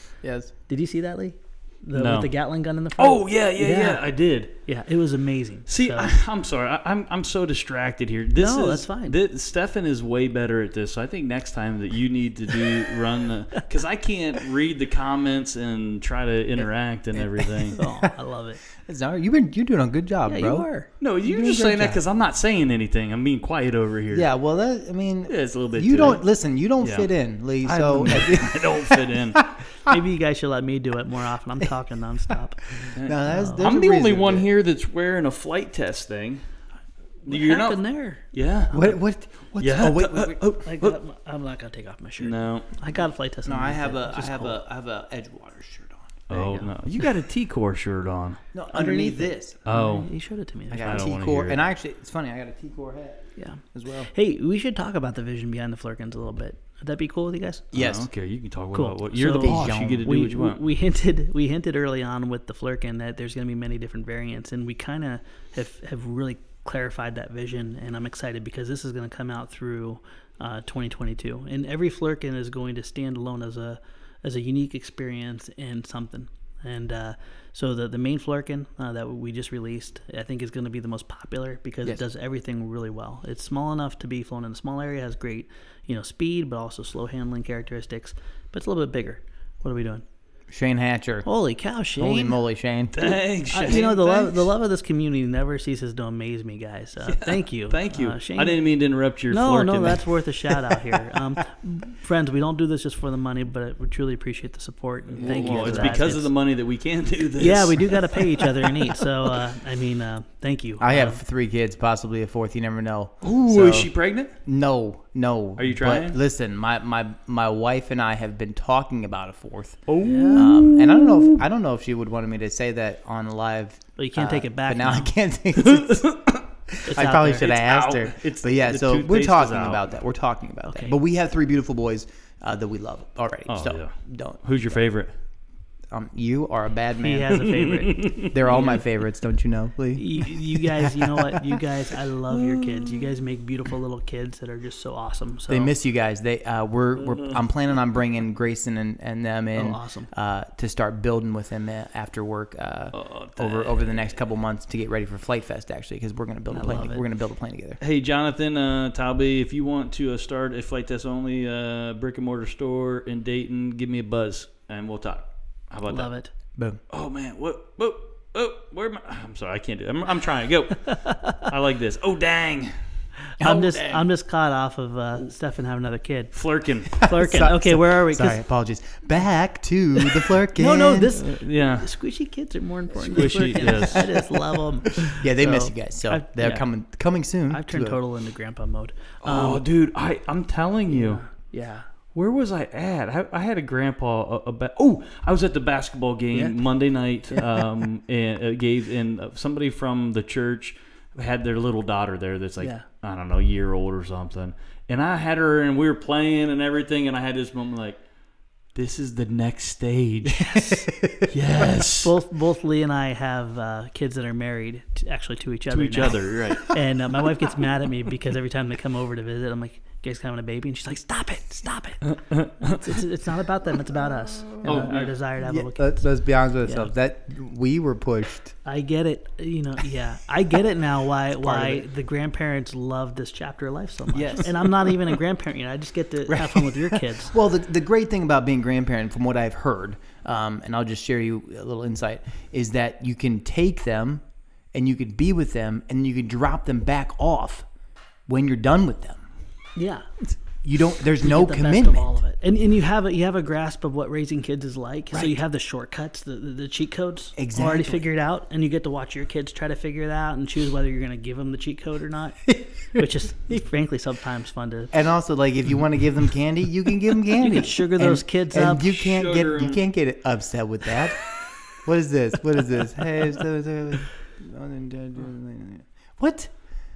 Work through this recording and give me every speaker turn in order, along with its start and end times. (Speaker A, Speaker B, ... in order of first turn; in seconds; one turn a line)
Speaker A: 0.2-0.5
Speaker B: 0.7-6.2
Speaker C: 1.9-2.3
Speaker C: 3.0-4.5
Speaker C: 5.7-17.8
Speaker B: 8.3-9.2
Speaker A: 16.6-18.0
Speaker B: 17.8-18.6
Speaker A: 18.8-20.7
Speaker B: 20.2-20.9
Speaker C: 21.0-24.3
Speaker A: 21.2-22.0
Speaker A: 24.1-29.6
Speaker C: 25.3-26.2
Speaker C: 26.8-27.1
Speaker C: 27.6-29.5
Speaker B: 29.9-32.6
Speaker C: 32.9-36.4
Speaker A: 33.0-34.5
Speaker B: 33.3-33.6
Speaker C: 37.2-37.8
Speaker B: 37.2-38.3
Speaker C: 38.3-39.0
Speaker A: 38.7-40.6
Speaker C: 39.6-41.0
Speaker B: 40.6-44.6
Speaker C: 42.2-42.7
Speaker A: 43.4-46.5
Speaker C: 46.3-48.4
Speaker B: 46.3-46.7
Speaker A: 48.5-49.6
Speaker B: 48.7-51.1
Speaker C: 49.6-50.1
Speaker A: 50.7-54.1
Speaker C: 50.8-51.6
Speaker B: 53.4-57.7
Speaker A: 57.7-58.1
Speaker C: 57.7-60.6
Speaker B: 58.7-90.0
Speaker A: 59.3-60.1
Speaker A: 90.5-91.3
Speaker B: 91.2-92.4
Speaker A: 92.0-93.0
Speaker C: 92.9-94.5
Speaker B: 93.0-98.6
Speaker C: 97.1-100.9
Speaker B: 99.3-106.3
Speaker A: 105.2-106.2
Speaker C: 105.2-108.7
Speaker B: 107.4-111.2
Speaker A: 110.8-113.9
Speaker C: 113.2-114.3
Speaker A: 114.4-126.2
Speaker C: 115.6-116.2
Speaker C: 119.9-121.4
Speaker B: 120.0-120.5
Speaker B: 124.0-125.1
Speaker C: 125.6-126.4
Speaker A: 126.7-134.8
Speaker B: 126.8-127.5
Speaker C: 127.3-129.9
Speaker B: 130.7-130.9
Speaker C: 133.5-135.1
Speaker A: 135.9-141.4
Speaker B: 137.0-138.6
Speaker C: 137.5-138.8
Speaker B: 139.9-145.7
Speaker A: 145.5-157.8
Speaker B: 149.5-150.1
Speaker C: 152.9-154.1
Speaker B: 156.5-157.0
Speaker C: 157.8-166.1
Speaker B: 165.9-166.3
Speaker C: 166.9-172.7
Speaker B: 170.9-171.4
Speaker B: 173.4-176.3
Speaker A: 173.4-174.0
Speaker C: 176.3-177.1
Speaker B: 176.9-178.4
Speaker A: 177.0-181.2
Speaker B: 180.5-186.7
Speaker C: 181.1-181.9
Speaker C: 183.0-184.2
Speaker A: 183.2-183.8
Speaker A: 185.1-188.0
Speaker B: 187.5-189.6
Speaker C: 189.2-191.2
Speaker B: 190.9-191.9
Speaker C: 192.1-208.0
Speaker C: 208.7-210.5
Speaker B: 210.4-210.9
Speaker A: 210.5-211.3
Speaker C: 211.3-212.1
Speaker B: 211.6-222.1
Speaker C: 215.7-216.8
Speaker C: 222.1-222.8
Speaker B: 222.6-226.0
Speaker A: 224.5-228.5
Speaker C: 224.6-225.1
Speaker B: 226.6-226.9
Speaker B: 228.6-237.3
Speaker A: 231.4-231.8
Speaker A: 234.1-234.7
Speaker A: 236.3-244.2
Speaker A: 244.7-247.7
Speaker A: 248.3-249.2
Speaker B: 249.8-250.1
Speaker A: 250.6-252.0
Speaker B: 251.2-264.9
Speaker A: 255.1-255.4
Speaker A: 257.4-258.0
Speaker A: 264.9-271.2
Speaker B: 267.4-269.0
Speaker C: 269.0-269.8
Speaker A: 271.7-276.5